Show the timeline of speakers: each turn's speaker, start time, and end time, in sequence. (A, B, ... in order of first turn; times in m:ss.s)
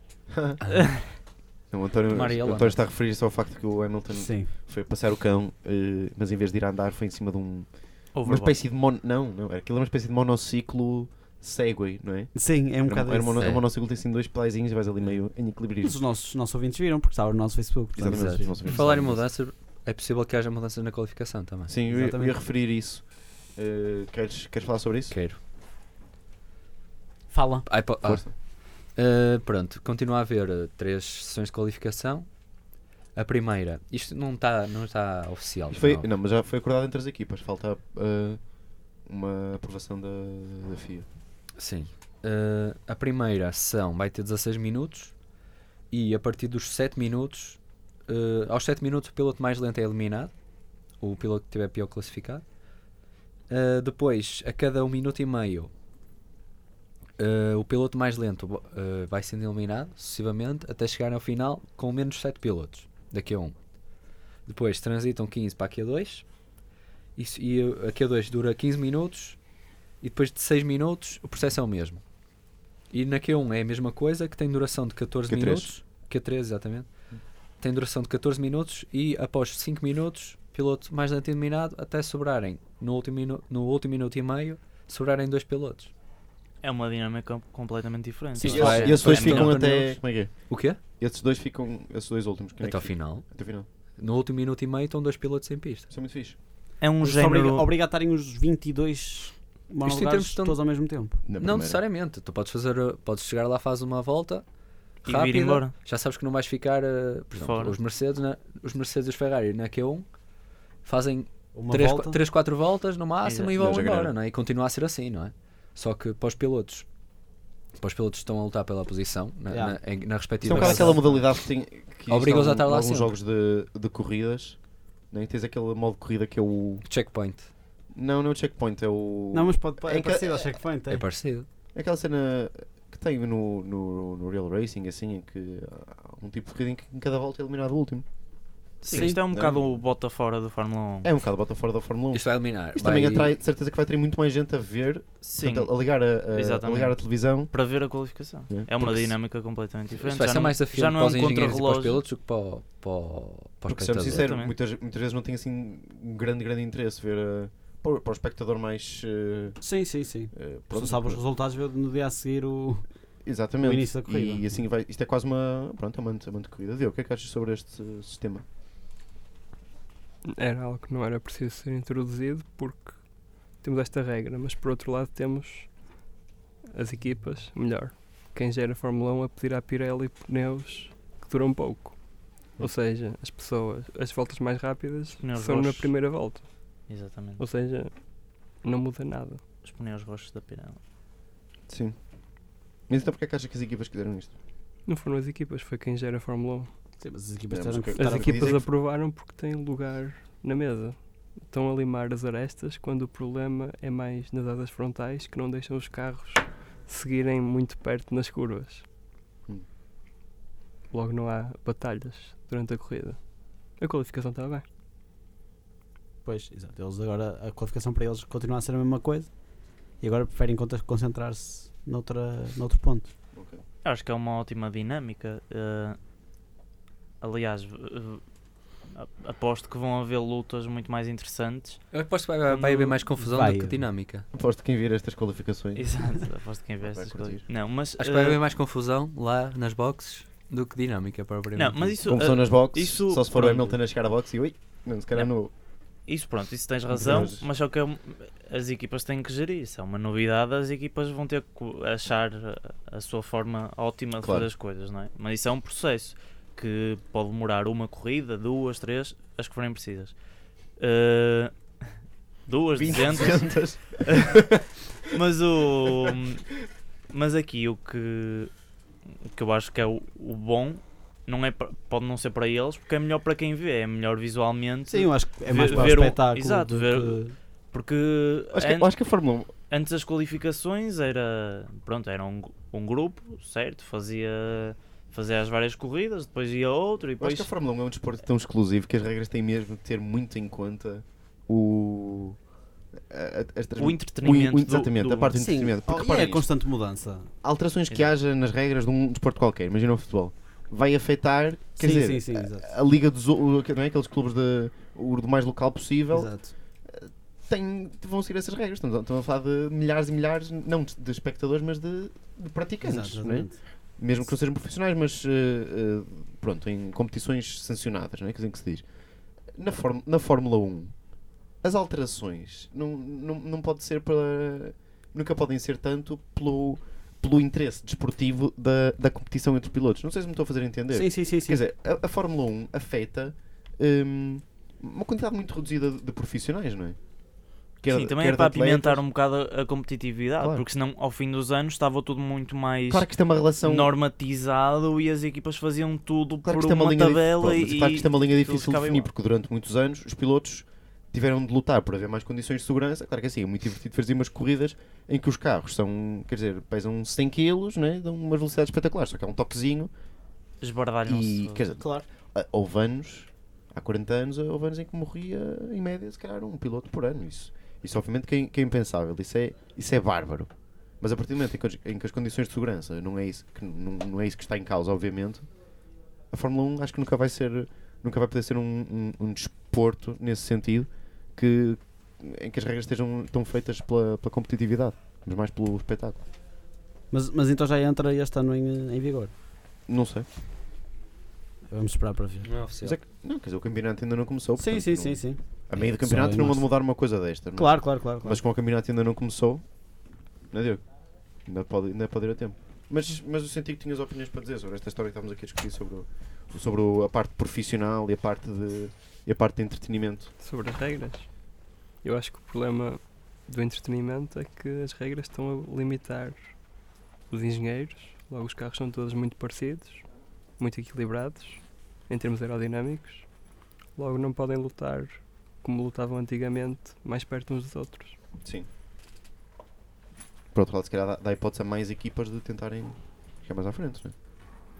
0:00.3-0:00.6 A
0:00.6-0:01.0 B
0:00.8-0:01.0 C
0:01.7-0:16.0 A
0:02.1-0:02.9 B
0:04.1-0:04.5 D
0:08.1-0:08.6 C
0:12.3-0:13.5 D
0:13.4-0:13.7 B
0:15.8-0:18.6 D
0:18.0-0:19.3 A
0:18.1-0:21.8 B
0:21.7-0:25.2 A
0:21.9-0:22.4 D
0:25.1-0:25.4 B
0:27.3-0:27.7 D
0:27.6-0:32.3 B
0:28.0-0:28.3 A
0:33.1-0:36.1 B
0:35.7-0:41.1 A
0:41.6-0:45.2 B
0:45.9-0:50.3 B
0:50.9-0:52.4 B
0:53.5-0:55.7 B
0:57.2-1:03.6 B
1:04.4-1:06.3 B
1:07.2-1:09.4 B
1:10.0-1:12.0 B
1:12.9-1:16.9 B
1:15.3-1:15.7 A
1:17.6-1:25.9 B
1:26.6-1:29.6 C
1:28.4-1:30.8 B
1:28.4-1:33.6 A
1:32.6-1:33.4 B
1:34.0-1:35.9 B
1:35.9-1:36.4 A
1:36.8-1:37.7 C
1:37.0-1:41.2 D
1:39.8-1:44.4 B
1:41.2-1:41.8 A
1:45.0-1:50.1 B
1:45.0-1:45.7 C
1:47.4-1:47.8 C
1:50.8-1:56.9 B
1:51.5-1:52.2 D
1:53.2-1:53.5 C
1:53.6-1:54.1 A
1:57.8-2:01.3 B
1:59.5-2:01.2 D
2:00.4-2:06.8 A
2:02.1-2:03.1 B
2:06.8-2:07.5 B
2:07.9-2:10.5 A
2:09.3-2:11.0 D
2:10.9-2:11.5 B
2:11.7-2:18.0 A
2:18.8-2:19.8 A
2:18.8-2:21.1 C
2:18.9-2:19.2 D
2:21.0-2:27.5 A
2:22.1-2:23.3 B
2:25.3-2:32.0 C
2:28.5-2:29.1 A
2:30.0-2:34.3 B
2:33.7-2:39.6 A
2:34.1-2:34.5 C
2:39.6-2:42.8 D
2:40.3-2:41.2 A
2:43.2-2:48.4 A
2:43.6-2:44.6 D
2:50.3-2:55.8 E
2:56.7-3:06.7 E
3:05.2-3:06.1 C
3:06.9-3:07.4 C
3:07.4-3:09.4 E
3:09.6-3:10.8 C
3:11.7-3:12.0 A
3:12.9-3:14.3 A
3:14.8-3:16.7 E
3:17.0-3:18.6 D
3:17.5-3:18.6 A
3:17.9-3:28.8 E
3:30.9-3:34.6 E
3:36.2-3:39.3 D
3:40.0-3:43.1 D
3:43.3-3:43.6 A
3:43.8-3:46.0 C
3:47.2-3:48.2 C
3:48.9-3:51.9 C
3:51.9-3:54.2 B
3:52.5-3:53.0 C
3:53.2-3:53.8 D
3:54.3-3:56.0 A
3:55.7-3:58.4 C
3:56.8-3:57.4 A
3:58.0-4:02.0 B
4:01.5-4:03.8 C
4:02.0-4:05.5 A
4:06.1-4:20.1 C
4:06.9-4:07.4 A
4:14.2-4:14.5 A
4:20.8-4:21.5 C
4:22.5-4:23.5 C
4:22.8-4:24.6 A
4:24.0-4:24.4 C
4:25.1-4:26.5 C
4:25.9-4:26.1 A
4:27.1-4:28.5 C
4:29.3-4:37.2 C
4:34.9-4:37.3 D
4:37.7-4:38.9 C
4:38.5-4:39.5 A
4:39.7-4:47.5 C
4:47.2-4:52.4 A
4:53.0-4:56.5 A
4:53.8-4:55.4 C
4:55.4-4:57.3 D
4:57.4-5:06.3 A
5:01.8-5:02.7 D
5:06.1-5:06.5 D
5:06.8-5:18.8 A
5:12.8-5:13.6 D
5:19.5-5:21.0 A
5:21.6-5:37.0 A
5:30.9-5:31.6 D
5:37.8-5:39.0 A
5:37.9-5:43.1 C
5:42.9-5:43.9 A
5:43.6-5:49.1 C
5:46.4-5:59.9 A
6:00.6-6:01.6 C
6:01.0-6:15.5 A
6:01.8-6:02.0 D
6:16.3-6:26.2 A
6:27.1-6:29.3 D
6:29.9-6:30.3 A
6:31.7-6:32.5 D
6:32.4-6:33.0 B
6:32.8-6:39.6 A
6:34.6-6:36.7 D
6:37.6-6:38.4 D
6:40.5-6:40.8 A
6:41.4-6:50.3 A
6:50.4-6:51.3 E
6:52.0-6:56.6 E
6:57.3-7:03.3 E
7:04.0-7:08.2 E
7:08.4-7:08.7 A
7:10.5-7:14.1 A